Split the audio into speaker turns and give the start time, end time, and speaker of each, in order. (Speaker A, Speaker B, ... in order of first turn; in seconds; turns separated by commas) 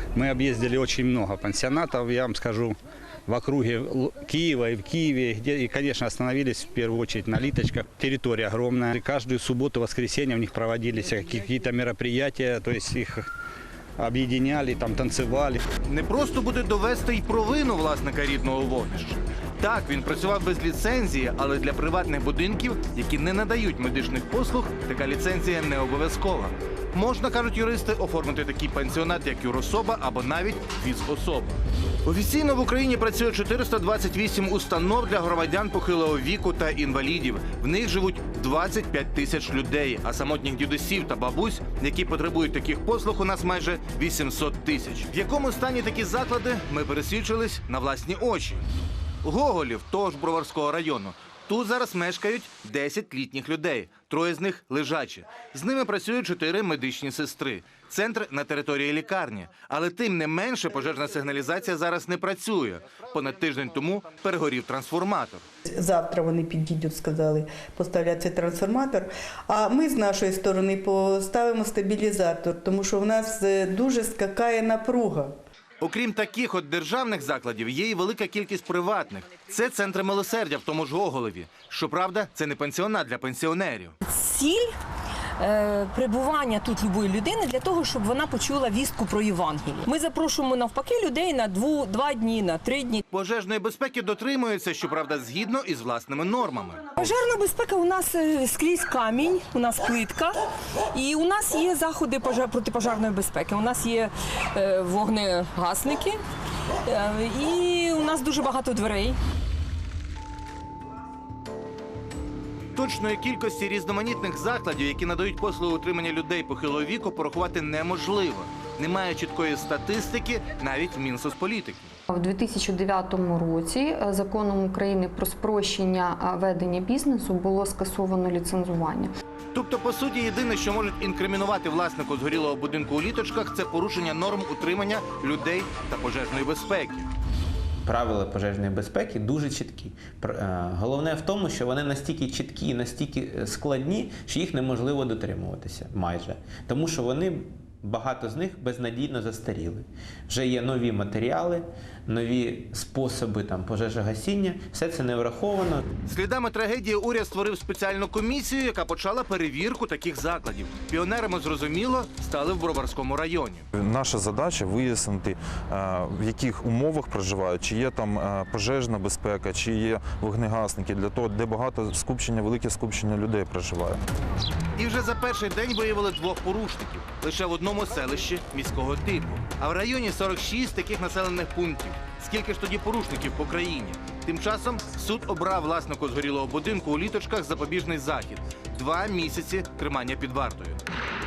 Speaker A: 0.1-13.3, Speaker A: 14.0-15.6, Speaker B: 15.9-48.7, Speaker B: 49.2-65.5, Speaker C: 65.8-75.3, Speaker B: 75.8-83.9, Speaker D: 84.1-84.7, Speaker D: 85.4-93.0, Speaker B: 93.1-96.8, Speaker D: 97.0-100.3, Speaker D: 100.9-106.2, Speaker D: 106.9-109.2, Speaker B: 112.8-122.0, Speaker E: 122.1-129.1, Speaker B: 129.5-137.1, Speaker F: 137.8-155.8, Speaker B: 156.1-163.7, Speaker G: 163.7-174.0, Speaker B: 174.8-190.8